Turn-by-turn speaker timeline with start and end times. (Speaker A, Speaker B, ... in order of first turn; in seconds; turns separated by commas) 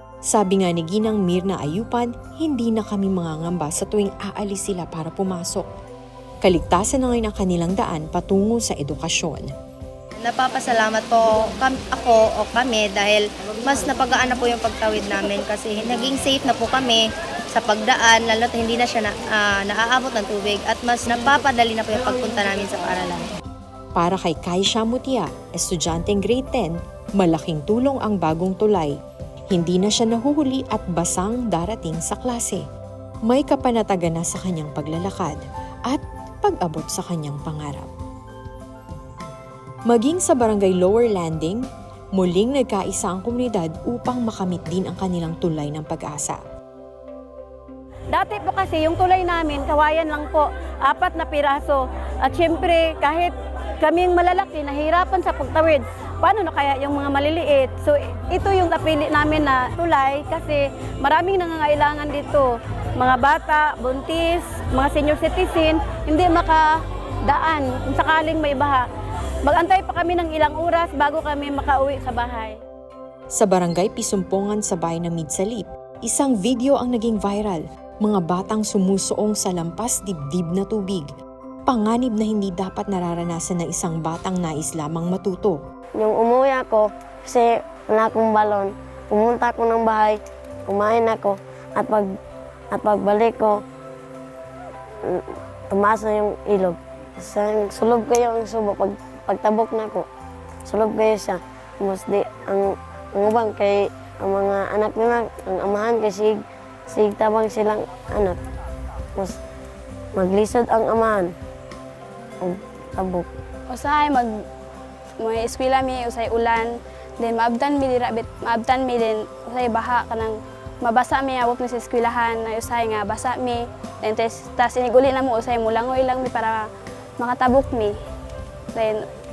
Speaker A: 0.3-5.7, Speaker A: 6.4-9.5, Speaker B: 10.2-23.2, Speaker A: 23.9-28.9, Speaker A: 29.5-32.6, Speaker A: 33.3-37.9, Speaker A: 39.9-41.6, Speaker A: 42.2-46.4, Speaker C: 48.1-68.9, Speaker C: 69.4-72.6, Speaker A: 73.3-81.1, Speaker A: 81.7-85.6, Speaker D: 86.0-92.1, Speaker D: 92.7-93.5, Speaker D: 95.0-100.0, Speaker D: 100.7-106.3, Speaker D: 106.9-108.4, Speaker D: 110.1-111.3, Speaker D: 112.4-113.2, Speaker E: 113.7-114.3, Speaker E: 115.2-126.7, Speaker E: 127.2-128.0, Speaker E: 128.7-129.0